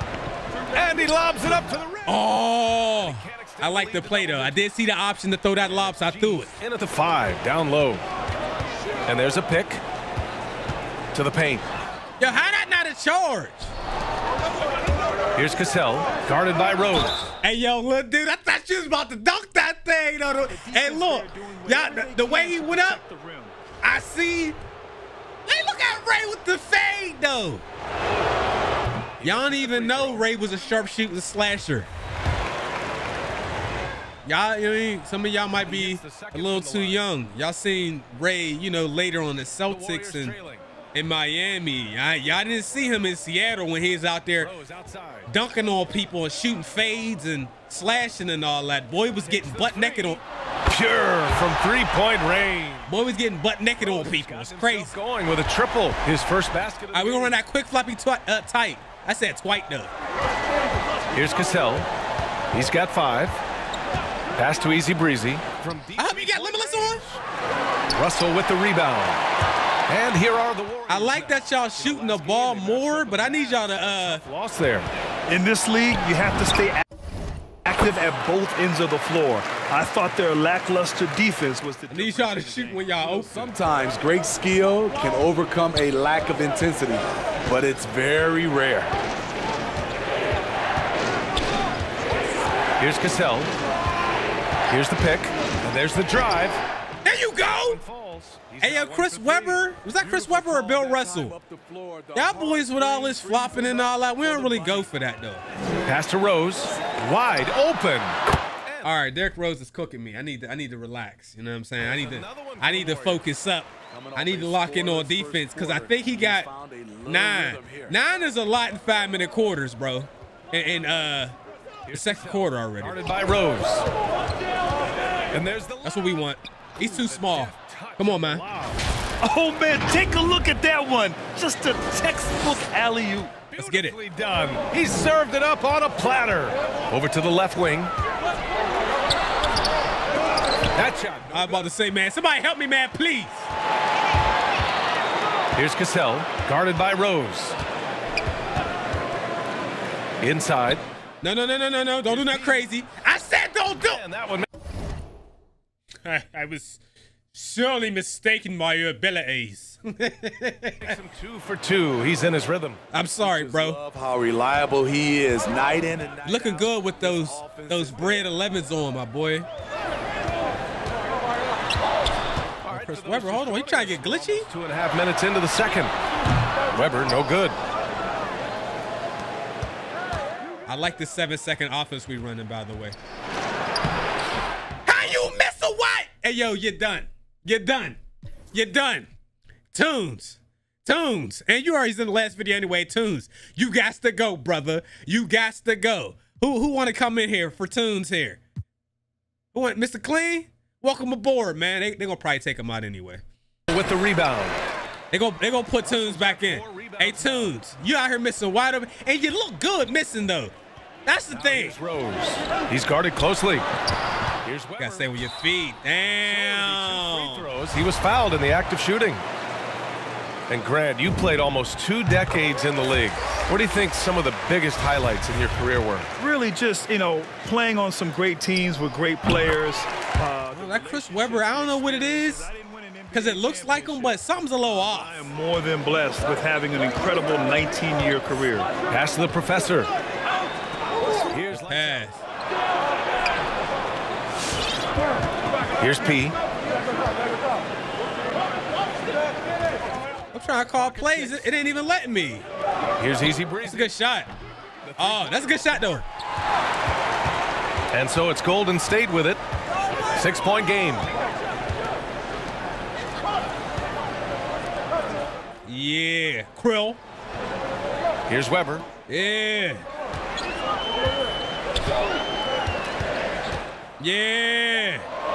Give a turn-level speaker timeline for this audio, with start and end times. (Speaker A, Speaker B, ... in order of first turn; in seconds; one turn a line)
Speaker A: 0.7-2.3
Speaker B: 2.1-6.5
Speaker A: 2.9-4.6
Speaker A: 5.6-8.0
Speaker A: 9.1-9.8
Speaker A: 11.1-11.6
Speaker B: 12.2-13.7
Speaker A: 15.3-17.3
Speaker B: 17.4-23.0
Speaker C: 20.5-23.6
Speaker B: 23.8-24.6
Speaker B: 25.4-27.6
Speaker A: 29.2-30.4
Speaker B: 29.2-31.9
Speaker B: 34.2-40.4
Speaker A: 35.6-37.1
Speaker A: 39.7-40.6
Speaker B: 40.9-44.5
Speaker A: 44.4-45.3
Speaker B: 45.3-50.2
Speaker A: 49.1-52.9
Speaker B: 52.9-54.9
Speaker A: 53.8-57.4
Speaker B: 56.9-59.9
Speaker A: 61.1-61.9
Speaker A: 62.5-63.4
Speaker A: 64.3-67.2
Speaker B: 66.0-67.0
Speaker A: 67.9-69.2
Speaker A: 69.9-74.9
Speaker B: 70.9-74.2
Speaker C: 75.3-76.8
Speaker C: 77.6-83.2
Speaker B: 81.9-83.5
Speaker D: 83.1-88.9
Speaker A: 92.8-93.5
Speaker A: 94.7-96.6
Speaker B: 97.0-97.8
Speaker A: 97.5-99.7
Speaker B: 98.6-101.3
Speaker D: 100.0-104.9
Speaker B: 102.1-105.4
Speaker A: 105.8-108.9
Speaker B: 108.8-116.5
Speaker A: 111.8-113.2
Speaker D: 113.9-118.0
Speaker B: 117.0-121.3
Speaker A: 121.8-123.9
Speaker B: 121.9-123.0
Speaker A: 125.3-126.1
Speaker B: 125.8-128.4
Speaker A: 126.8-128.8
Speaker C: 129.2-133.4
Speaker A: 133.5-137.9
Speaker B: 133.5-134.0
Speaker A: 140.7-141.6
Speaker B: 141.3-143.5
Speaker A: 145.5-147.6
Speaker A: 150.2-150.8
Speaker B: 151.2-154.0
Speaker A: 152.0-152.7
Speaker A: 153.8-154.5
Speaker B: 156.0-156.8
Speaker B: 157.3-161.0
Speaker A: 160.8-162.8
Speaker B: 162.9-163.8
Speaker D: 163.2-168.3
Speaker B: 166.2-169.5
Speaker A: 172.6-175.9
Speaker B: 172.7-174.5
Speaker A: 176.7-177.6
Speaker B: 180.7-183.0
Speaker B: 184.9-188.0
Speaker B: 188.5-189.1
Speaker B: 189.7-198.4
Speaker B: 199.5-203.2
Speaker A: 203.7-204.6
Speaker B: 205.1-210.5
Speaker A: 205.8-207.6
Speaker B: 211.1-211.8
Speaker A: 211.3-213.6
Speaker A: 214.4-215.1
Speaker B: 214.8-217.5
Speaker A: 216.2-219.2
Speaker A: 220.5-226.1
Speaker C: 226.2-238.7
Speaker B: 230.5-232.5
Speaker B: 233.1-235.3
Speaker A: 238.9-239.9
Speaker A: 241.2-242.1
Speaker B: 241.5-242.2
Speaker A: 245.8-246.4
Speaker B: 250.3-252.4
Speaker A: 250.8-251.5
Speaker A: 253.0-253.9
Speaker B: 253.6-254.3
Speaker A: 254.8-255.9
Speaker B: 255.0-256.0
Speaker A: 257.9-259.4
Speaker A: 260.1-261.1
Speaker B: 265.6-267.0
Speaker A: 268.3-268.9
Speaker B: 269.1-269.8
Speaker B: 274.0-275.1